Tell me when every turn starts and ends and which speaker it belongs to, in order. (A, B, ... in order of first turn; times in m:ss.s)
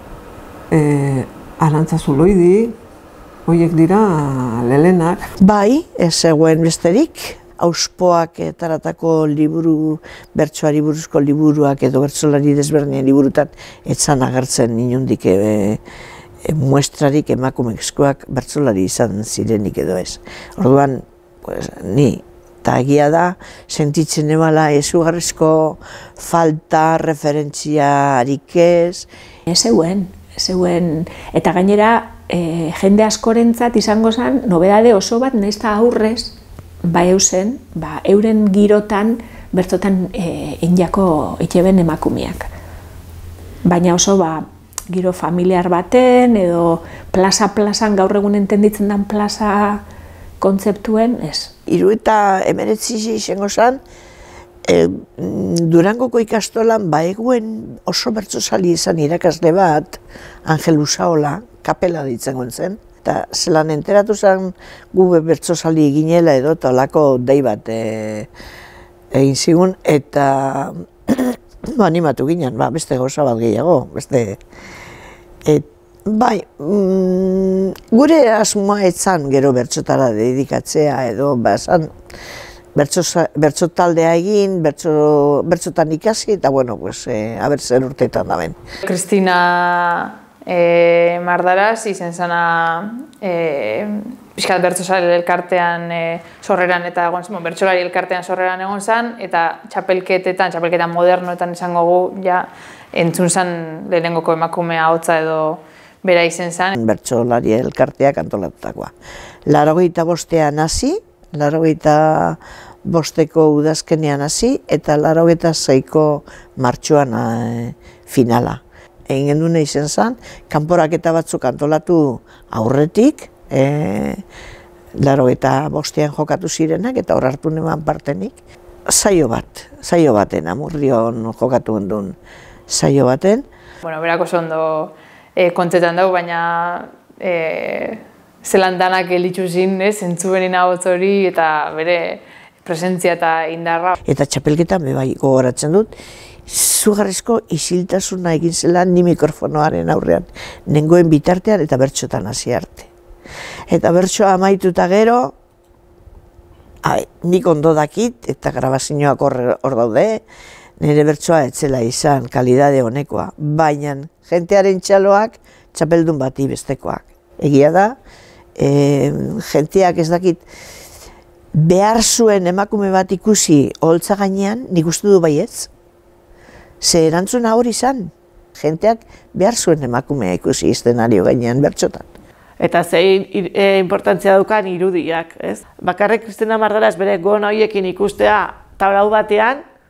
0:00.7-0:02.8 A
0:03.5-0:05.3 A
0:05.4-0:15.8 B
0:16.4-0:29.1 B
0:29.5-0:42.5 C
0:43.6-0:49.8 C
0:50.4-0:51.5 C
0:51.7-0:53.8 B
0:54.7-1:08.3 B
1:09.1-1:14.4 B
1:15.4-1:21.9 B
1:22.8-1:28.6 B
1:28.8-1:46.7 D
1:46.7-1:48.9 B
1:49.5-2:04.2 B
2:05.0-2:08.4 B
2:08.9-2:12.2 B
2:12.7-2:13.5 B
2:13.8-2:24.0 D
2:24.1-2:25.9 B
2:26.5-2:32.9 B
2:33.7-2:35.4 B
2:36.8-2:40.2 B
2:40.8-2:48.0 B
2:48.6-2:50.4 B
2:51.5-2:55.7 B
2:56.8-3:02.1 B
3:02.6-3:09.6 E